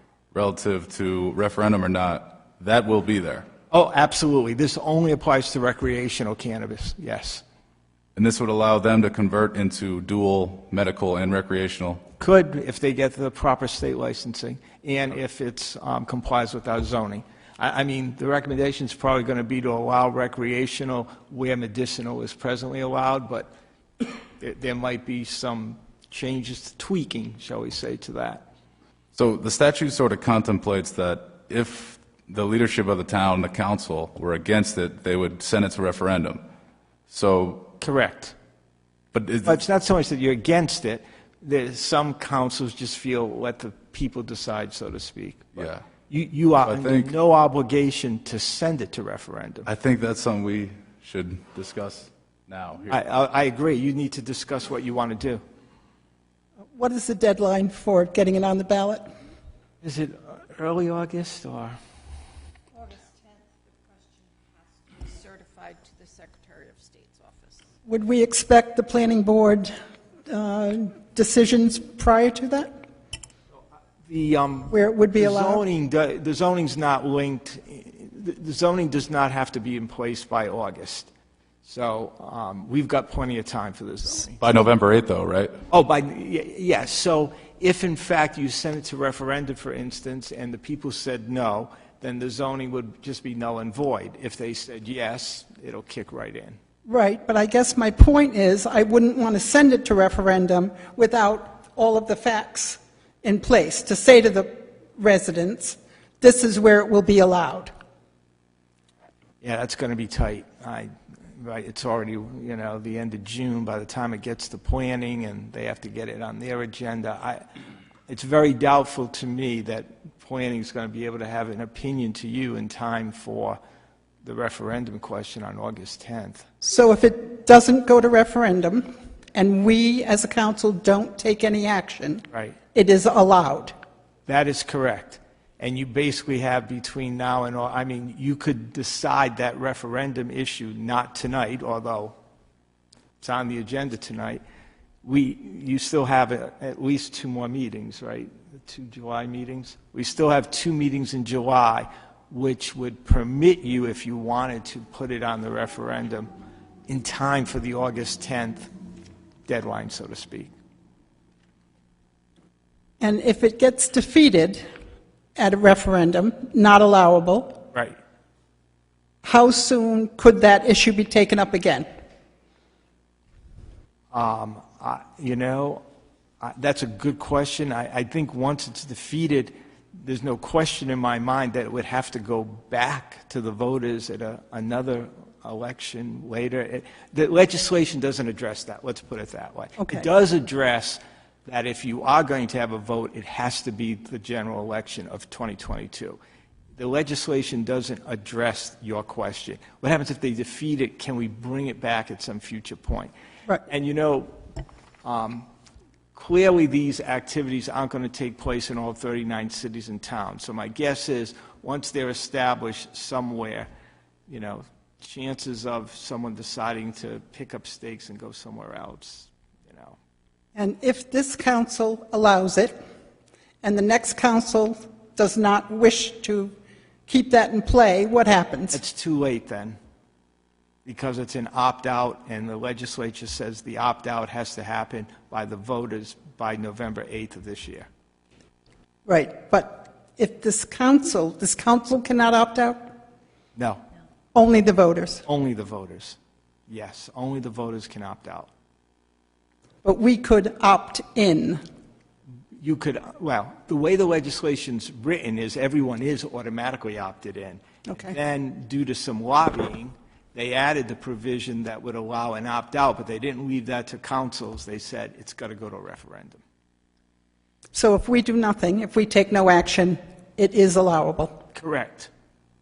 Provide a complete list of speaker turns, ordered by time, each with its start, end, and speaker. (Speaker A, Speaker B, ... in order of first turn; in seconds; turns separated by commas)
Speaker A: 0.3-3.5, Speaker B: 3.7-7.4, Speaker A: 8.2-12.0, Speaker B: 12.2-28.4, Speaker A: 29.1-36.4, Speaker A: 37.1-37.7, Speaker B: 37.8-38.4, Speaker A: 39.1-39.6, Speaker B: 39.4-49.7, Speaker A: 45.5-45.8, Speaker A: 46.6-47.1, Speaker A: 49.6-53.0, Speaker B: 52.9-55.4, Speaker C: 56.7-59.1, Speaker B: 59.8-61.8, Speaker D: 62.9-64.2, Speaker D: 64.9-67.6, Speaker C: 67.8-69.7, Speaker C: 70.3-72.7, Speaker B: 74.0-81.1, Speaker C: 74.7-75.6, Speaker B: 81.6-84.4, Speaker A: 84.4-85.5, Speaker B: 85.7-96.6, Speaker C: 96.8-107.7, Speaker B: 109.4-117.4, Speaker B: 118.1-123.6, Speaker B: 124.2-126.5, Speaker C: 126.6-133.7, Speaker B: 134.3-142.1, Speaker B: 143.2-144.4, Speaker B: 145.0-156.3, Speaker B: 156.9-158.7, Speaker B: 159.5-160.5, Speaker C: 163.0-164.6, Speaker C: 165.3-167.6, Speaker C: 169.2-171.9, Speaker B: 174.1-175.8, Speaker B: 176.4-196.2, Speaker C: 189.8-190.1, Speaker B: 196.8-203.1, Speaker B: 203.7-204.3, Speaker B: 205.0-205.5, Speaker B: 206.1-213.7, Speaker B: 214.3-220.0, Speaker C: 220.5-222.8, Speaker C: 223.6-226.5, Speaker C: 227.1-228.8, Speaker B: 228.7-229.8, Speaker B: 230.8-237.9, Speaker C: 239.1-242.9, Speaker B: 243.6-243.8, Speaker C: 244.3-245.2, Speaker B: 245.2-246.2, Speaker B: 246.7-248.5, Speaker C: 249.8-251.6, Speaker B: 252.6-266.4, Speaker C: 257.9-258.1, Speaker C: 267.7-271.4, Speaker B: 271.5-272.1